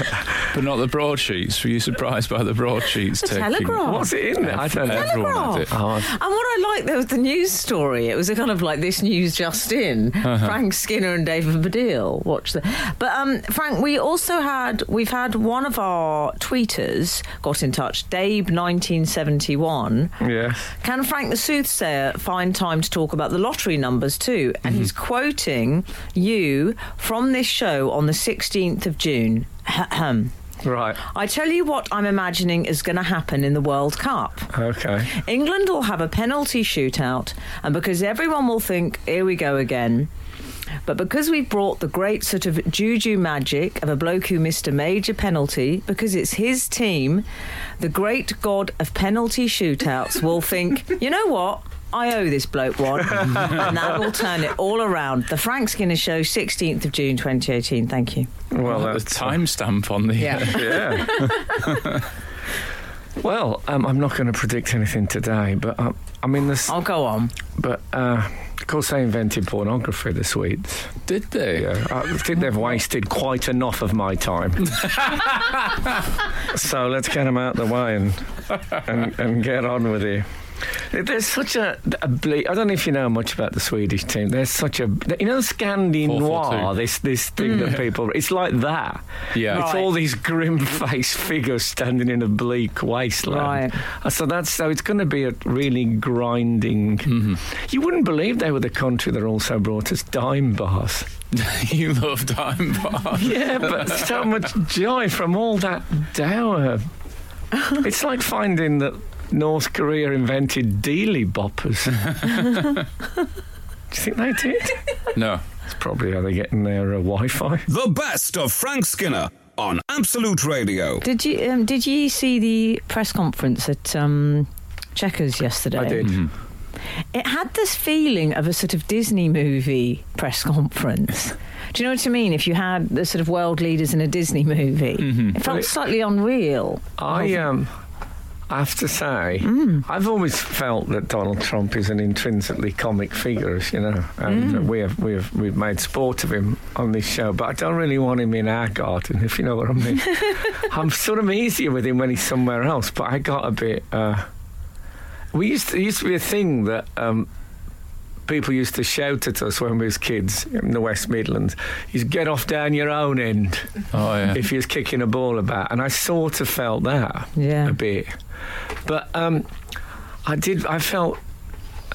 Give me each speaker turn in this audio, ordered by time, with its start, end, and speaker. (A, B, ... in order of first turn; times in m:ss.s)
0:00.4-0:05.7 A
0:03.2-0:04.1 B
0:03.8-0:05.1 C
0:04.9-0:20.2 B
0:05.7-0:06.1 C
0:10.2-0:10.6 A
0:20.2-0:20.7 C
0:20.8-0:30.3 B
0:30.6-0:31.0 C
0:31.0-0:34.5 B
0:34.5-0:35.1 C
0:35.1-0:40.1 B
0:40.9-0:47.2 B
0:47.8-0:58.3 B
0:53.2-0:53.7 C
0:58.5-0:59.4 C
0:58.6-1:02.0 A
1:00.2-1:01.6 B
1:00.4-1:01.3 C
1:03.2-1:06.8 C
1:06.7-1:07.3 B
1:07.6-1:11.0 C
1:11.1-1:11.7 A
1:11.5-1:15.0 C
1:14.9-1:15.5 A
1:16.4-1:41.1 C
1:26.0-1:26.7 A
1:27.5-1:27.8 A
1:29.3-1:29.7 A
1:29.5-1:29.9 B
1:33.3-1:33.8 B
1:37.1-1:37.4 A
1:41.3-1:44.1 A
1:43.2-1:46.9 C
1:47.7-1:52.3 C
1:52.1-1:52.8 A
1:53.9-1:54.8 C
1:55.1-1:55.4 A
1:55.7-1:57.7 C
1:57.7-2:01.0 D
2:01.0-2:06.1 B
2:05.8-2:06.3 C
2:06.0-2:06.3 A
2:07.1-2:17.4 B
2:15.0-2:15.4 A
2:15.4-2:15.7 C
2:17.0-2:17.7 C
2:18.5-2:34.3 C
2:19.4-2:19.9 B
2:24.3-2:24.6 B
2:35.3-2:37.3 C
2:38.3-2:48.2 C
2:43.9-2:44.4 A
2:47.4-2:47.8 B
2:48.8-2:49.5 C
2:50.2-2:51.2 C